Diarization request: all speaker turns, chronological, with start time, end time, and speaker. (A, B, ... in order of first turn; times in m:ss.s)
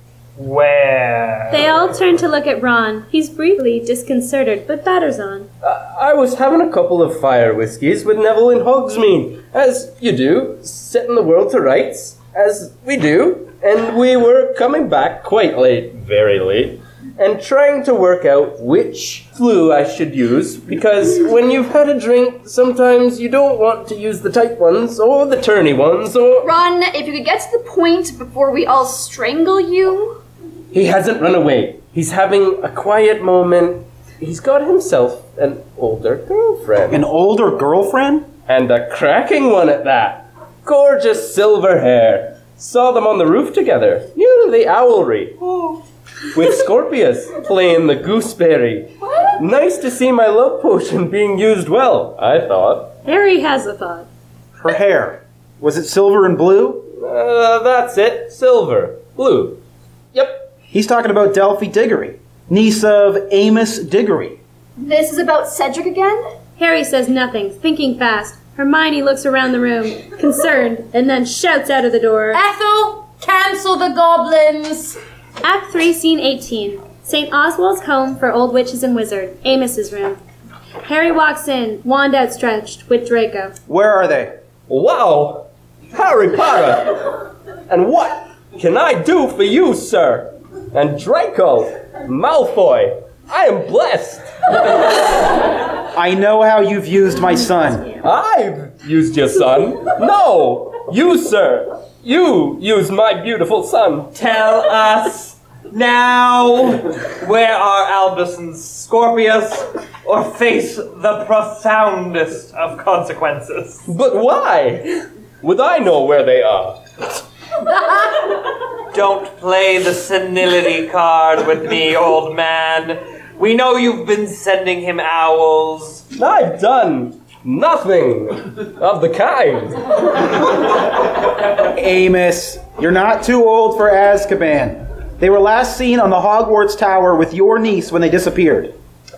0:00.4-0:01.7 A
0:01.5-0:05.5 B
0:05.6-0:26.5 C
0:26.4-0:30.2 D
0:30.7-0:37.0 C
0:36.9-0:38.3 E
0:38.5-0:45.8 C
0:46.3-0:52.9 C
0:53.0-0:54.1 B
0:54.6-0:56.9 E
0:57.0-0:59.6 C
1:00.1-1:00.4 C
1:00.7-1:04.4 E
1:04.8-1:06.3 D
1:06.6-1:12.4 B
1:12.3-1:15.0 F
1:15.4-1:20.2 B
1:20.8-1:23.5 B
1:23.7-1:24.3 E
1:24.7-1:34.9 C
1:35.9-1:37.9 E
1:38.0-1:44.1 C
1:44.2-1:53.8 A
1:53.9-1:56.8 C
1:58.9-2:06.0 A
2:06.2-2:09.9 C
2:11.6-2:18.7 E